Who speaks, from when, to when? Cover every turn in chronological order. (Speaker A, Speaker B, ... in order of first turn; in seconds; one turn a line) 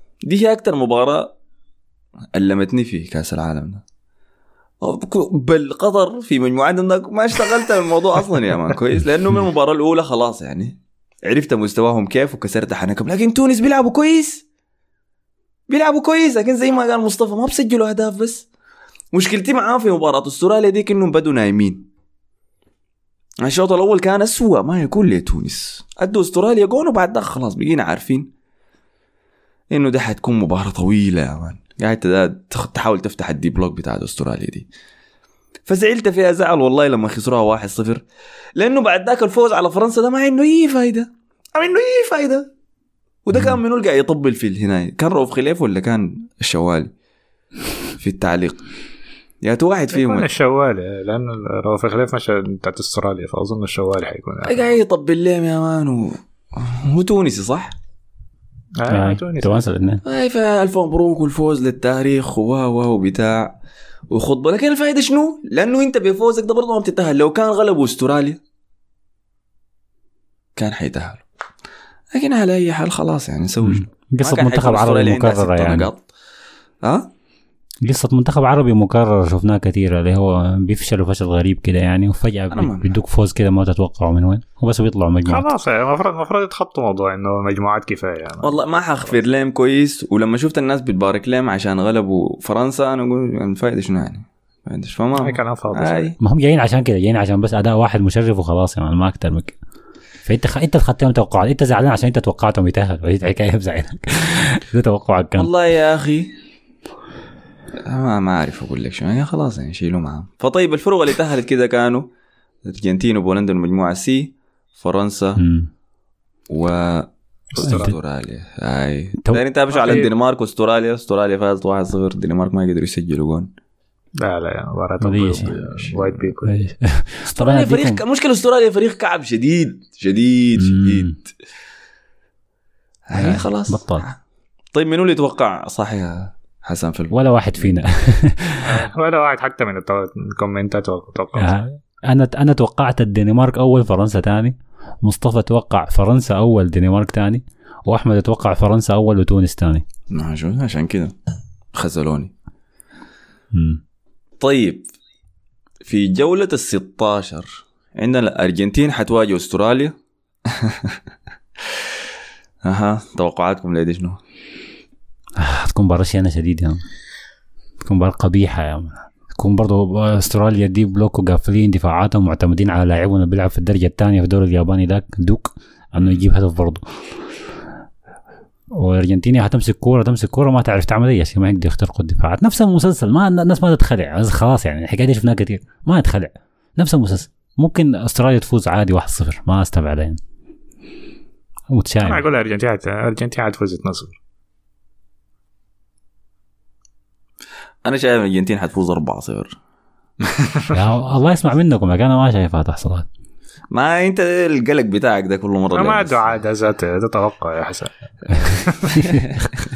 Speaker A: 0.2-1.3
Speaker A: 2.4-3.8
Speaker A: 4.8-14.4
Speaker A: 15.7-18.5
Speaker A: 19.1-21.9
Speaker A: 23.4-28.3
Speaker A: 29.7-34.7
Speaker A: 35.7-38.0
Speaker A: 38.6-42.5
Speaker A: 43.2-46.9
Speaker A: 48.0-48.6
Speaker A: 49.4-50.3
Speaker B: 49.9-54.8
Speaker A: 54.4-57.8
Speaker B: 58.8-59.7
Speaker C: 58.9-60.0
Speaker A: 60.0-63.6
Speaker A: 64.1-68.4
Speaker A: 70.6-71.2
Speaker A: 72.1-76.0
Speaker C: 73.6-75.9
Speaker A: 76.8-77.1
Speaker C: 77.8-85.5
Speaker A: 82.5-82.9
Speaker B: 85.3-88.6
Speaker A: 88.4-96.1
Speaker B: 95.2-96.2
Speaker C: 96.2-99.5
Speaker C: 100.3-105.5
Speaker A: 105.4-106.3
Speaker A: 107.8-112.1
Speaker A: 112.7-115.4
Speaker C: 115.4-115.7
Speaker A: 116.5-123.5
Speaker B: 117.6-117.9
Speaker C: 117.6-117.9
Speaker B: 119.7-120.1
Speaker B: 124.2-126.6
Speaker C: 125.0-125.5
Speaker A: 125.5-126.2
Speaker C: 126.5-128.0
Speaker A: 127.3-131.3
Speaker C: 130.6-131.2
Speaker A: 133.1-134.2
Speaker C: 133.1-134.1
Speaker A: 134.7-137.8
Speaker C: 137.1-138.7
Speaker B: 138.7-141.5
Speaker C: 141.4-149.8
Speaker A: 150.1-151.1
Speaker A: 151.7-152.3
Speaker C: 153.5-153.8
Speaker A: 154.4-154.9
Speaker A: 155.8-159.9
Speaker A: 160.5-161.0
Speaker A: 162.6-164.2
Speaker C: 165.4-166.8
Speaker C: 167.8-176.8
Speaker A: 176.0-176.2
Speaker C: 178.8-190.2
Speaker C: 191.7-192.2
Speaker B: 192.0-194.2
Speaker A: 197.8-199.6
Speaker C: 200.7-203.1
Speaker A: 203.7-206.4
Speaker B: 205.8-208.9
Speaker A: 208.3-209.4
Speaker C: 208.9-209.4